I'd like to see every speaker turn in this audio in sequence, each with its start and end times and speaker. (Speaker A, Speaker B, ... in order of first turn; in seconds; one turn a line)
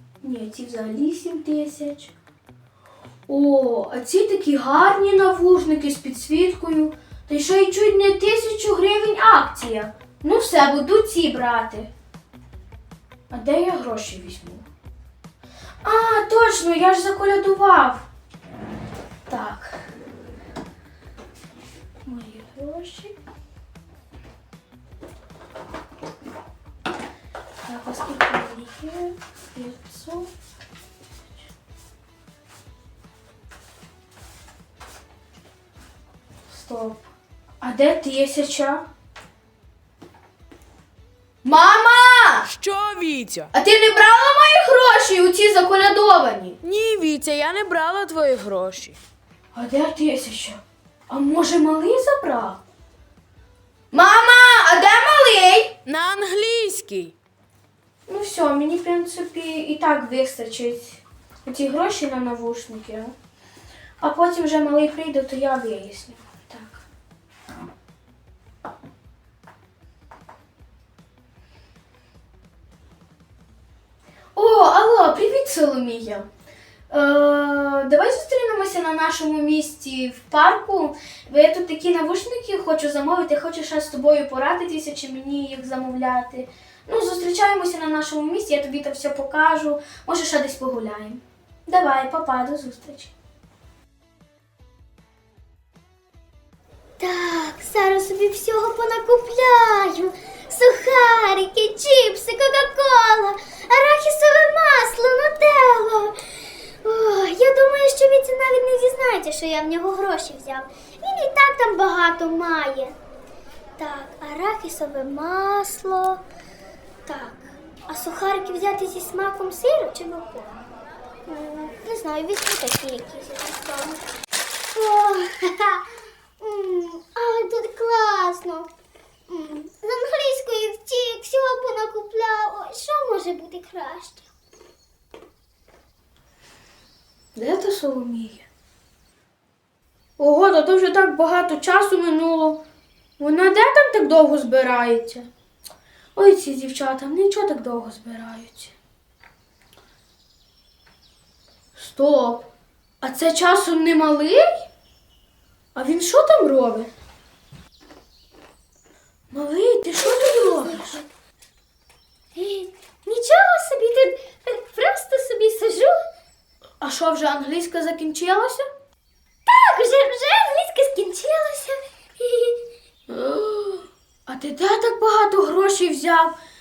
Speaker A: 0.2-2.1
Speaker A: 3.3-11.9
Speaker A: 13.3-14.7
Speaker A: 15.8-18.0
Speaker A: 19.3-19.9
Speaker A: 22.0-23.1
Speaker A: 27.6-30.3
Speaker A: 36.5-37.1
Speaker A: 37.6-38.9
Speaker A: 41.4-42.6
Speaker B: 42.5-43.5
Speaker A: 43.5-48.2
Speaker B: 46.6-49.0
Speaker A: 49.5-52.6
Speaker A: 53.9-57.1
Speaker B: 56.1-57.1
Speaker A: 58.1-63.1
Speaker A: 64.0-66.8
Speaker A: 74.3-76.3
Speaker A: 76.9-93.1
Speaker C: 97.0-106.2
Speaker C: 106.8-112.9
Speaker C: 113.8-116.2
Speaker C: 117.0-120.6
Speaker C: 121.3-124.0
Speaker C: 124.7-125.8
Speaker C: 126.4-128.7
Speaker C: 129.3-134.3
Speaker A: 137.3-138.5
Speaker A: 140.2-142.6
Speaker A: 143.2-145.3
Speaker A: 146.1-148.7
Speaker A: 151.8-152.5
Speaker A: 153.0-154.6
Speaker A: 155.7-156.9
Speaker A: 159.3-161.0
Speaker C: 160.0-161.0
Speaker C: 162.3-165.9
Speaker A: 166.8-168.7
Speaker C: 169.4-172.6
Speaker A: 173.1-176.3